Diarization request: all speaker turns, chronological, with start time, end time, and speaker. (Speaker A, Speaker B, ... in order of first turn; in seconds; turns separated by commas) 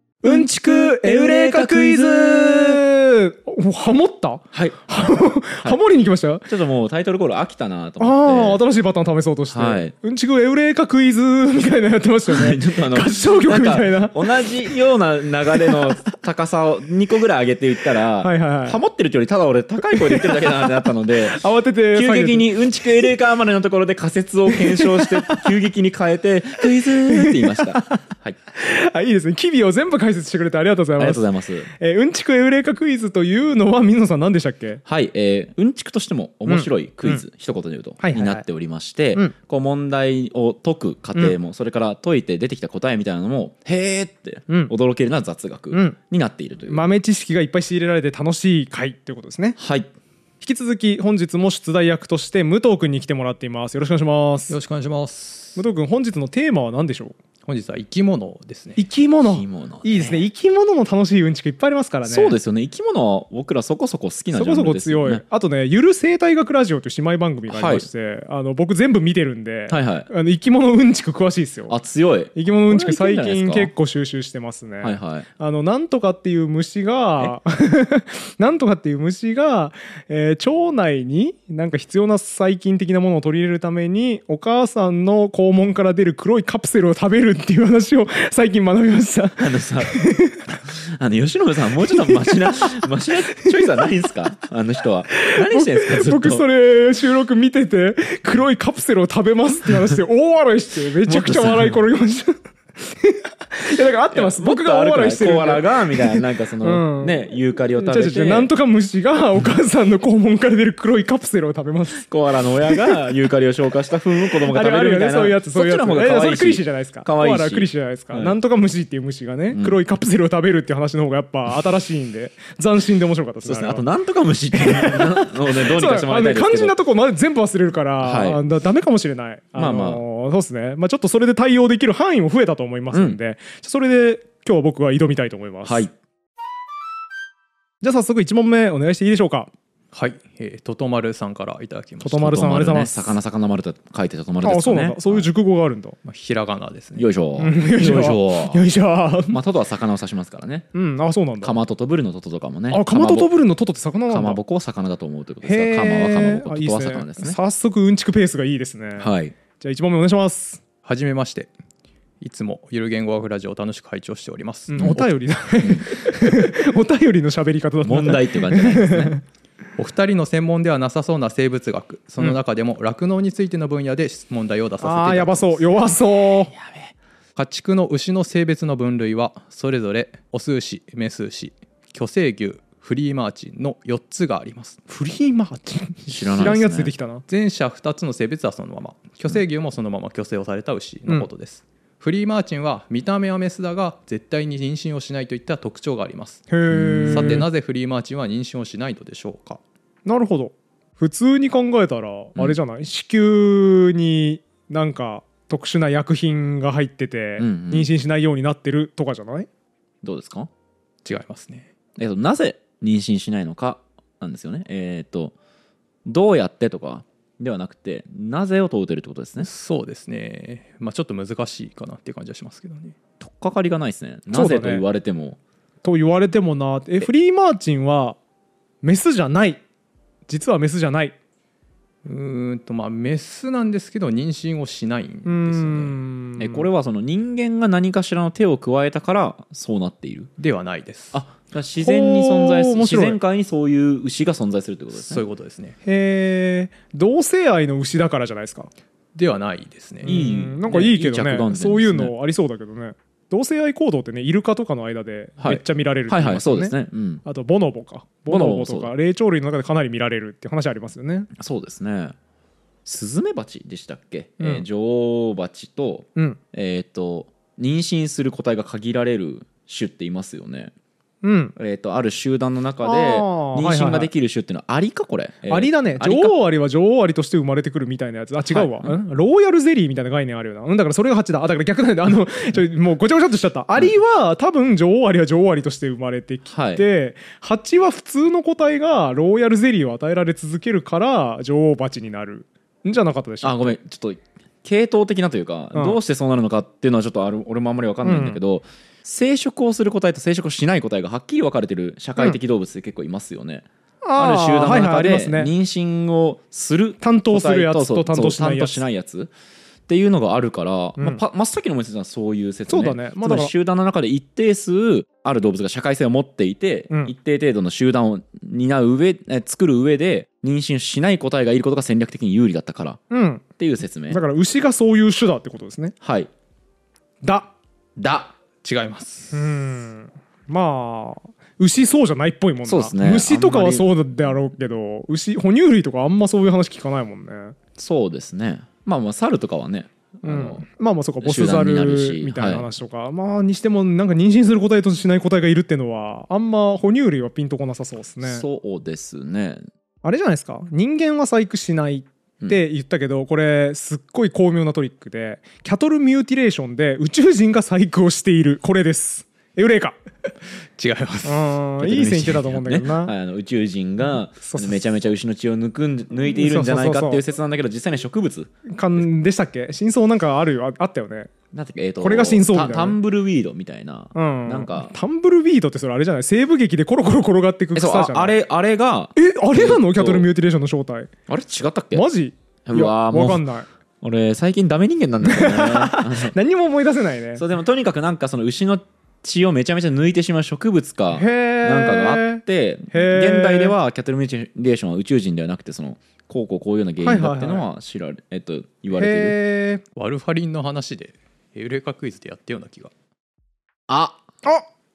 Speaker A: 0.2-6.5, Speaker B: 0.2-2.8, Speaker B: 4.5-5.8, Speaker B: 6.5-8.6, Speaker A: 8.0-14.2, Speaker B: 9.5-9.9, Speaker B: 12.3-21.4, Speaker A: 18.2-18.8, Speaker A: 19.9-20.7, Speaker A: 21.3-22.5, Speaker B: 21.9-28.4, Speaker A: 24.5-25.4, Speaker A: 26.8-28.0, Speaker A: 28.5-34.8, Speaker B: 31.0-31.7, Speaker B: 34.9-46.8, Speaker A: 36.5-37.2, Speaker A: 38.0-38.5, Speaker A: 45.7-46.0, Speaker A: 46.7-49.6, Speaker B: 49.6-49.9, Speaker A: 50.4-54.5, Speaker C: 54.5-55.6, Speaker A: 55.6-57.1, Speaker C: 57.5-58.8, Speaker A: 58.8-62.4, Speaker B: 59.2-60.2, Speaker B: 62.0-65.2, Speaker A: 64.3-71.8, Speaker B: 67.5-67.9, Speaker B: 69.7-70.1, Speaker B: 71.7-73.7, Speaker A: 72.3-90.5, Speaker B: 74.8-75.3, Speaker B: 89.4-96.5, Speaker A: 91.9-92.8, Speaker A: 95.1-107.2, Speaker B: 101.1-101.8, Speaker B: 104.1-108.5, Speaker A: 107.8-112.1, Speaker B: 112.0-118.3, Speaker A: 112.6-113.0, Speaker A: 114.5-123.8, Speaker B: 119.5-119.8, Speaker B: 123.4-126.8, Speaker A: 124.5-135.9, Speaker B: 128.0-128.4, Speaker B: 129.6-130.0, Speaker B: 132.9-133.2, Speaker B: 135.7-135.9, Speaker A: 137.8-139.5, Speaker C: 139.9-142.3, Speaker A: 142.0-143.2, Speaker B: 142.2-145.3, Speaker A: 144.4-146.0, Speaker C: 146.1-147.1, Speaker B: 147.0-148.6, Speaker A: 147.4-149.4, Speaker B: 149.3-150.7, Speaker A: 150.7-151.6, Speaker B: 151.4-153.3, Speaker A: 152.7-154.4, Speaker B: 154.1-157.4, Speaker A: 155.4-160.6, Speaker B: 159.0-159.3, Speaker C: 160.8-161.5, Speaker C: 162.2-165.1, Speaker A: 164.7-169.2, Speaker B: 165.6-165.9, Speaker B: 167.8-169.1, Speaker C: 169.8-175.8, Speaker A: 174.8-176.5, Speaker B: 176.6-176.9, Speaker C: 177.4-184.8, Speaker A: 184.9-187.2, Speaker B: 186.1-186.9, Speaker C: 187.3-196.5, Speaker A: 196.5-197.5, Speaker B: 196.7-197.5, Speaker C: 197.1-199.6, Speaker A: 200.1-209.5, Speaker B: 207.4-207.9, Speaker B: 210.0-210.5, Speaker C: 211.1-211.7, Speaker B: 212.0-215.3, Speaker B: 216.1-219.5, Speaker C: 219.4-222.9, Speaker B: 223.2-225.4, Speaker A: 224.3-224.8, Speaker A: 225.8-228.2, Speaker A: 228.8-229.6, Speaker A: 230.3-231.2, Speaker C: 232.1-236.0, Speaker A: 235.3-236.7, Speaker B: 236.4-240.3, Speaker C: 240.4-241.2, Speaker B: 241.1-245.2, Speaker A: 241.8-243.2, Speaker C: 244.9-245.8, Speaker A: 245.8-248.7, Speaker C: 249.2-250.2, Speaker A: 250.0-261.3, Speaker B: 250.0-252.1, Speaker B: 255.4-257.2, Speaker B: 258.3-258.9, Speaker B: 261.4-262.1, Speaker B: 262.9-270.7, Speaker A: 264.4-264.6, Speaker A: 271.2-271.6, Speaker B: 271.6-276.4, Speaker A: 272.8-274.1, Speaker A: 275.5-293.7, Speaker B: 278.5-279.0, Speaker B: 286.5-286.9, Speaker B: 293.4-309.3, Speaker A: 295.7-296.0, Speaker A: 298.0-298.4, Speaker A: 304.0-305.5, Speaker A: 307.0-308.8, Speaker B: 309.9-323.0, Speaker A: 312.7-313.5, Speaker A: 323.1-323.4, Speaker B: 323.6-324.2, Speaker A: 324.1-326.0, Speaker B: 326.0-326.3, Speaker A: 327.2-327.5, Speaker B: 328.0-328.3, Speaker C: 328.6-329.4, Speaker A: 329.3-337.6, Speaker B: 332.6-333.9, Speaker B: 337.8-340.6, Speaker A: 340.2-348.4, Speaker B: 341.2-342.7, Speaker B: 348.2-349.6, Speaker A: 350.0-360.0, Speaker C: 360.8-361.5, Speaker A: 361.2-363.1, Speaker B: 361.8-369.1, Speaker A: 364.4-364.8, Speaker A: 366.3-367.2, Speaker A: 368.7-371.3, Speaker B: 371.5-374.9, Speaker A: 372.0-373.0, Speaker A: 374.1-378.4, Speaker B: 377.8-380.3, Speaker A: 379.1-381.1, Speaker B: 381.3-382.1, Speaker A: 381.9-383.7, Speaker B: 382.7-383.4, Speaker B: 384.0-386.4, Speaker A: 385.2-387.4, Speaker B: 387.4-399.4, Speaker A: 391.1-393.7, Speaker A: 397.0-397.7, Speaker A: 398.9-399.8, Speaker C: 400.0-402.9, Speaker B: 403.9-404.2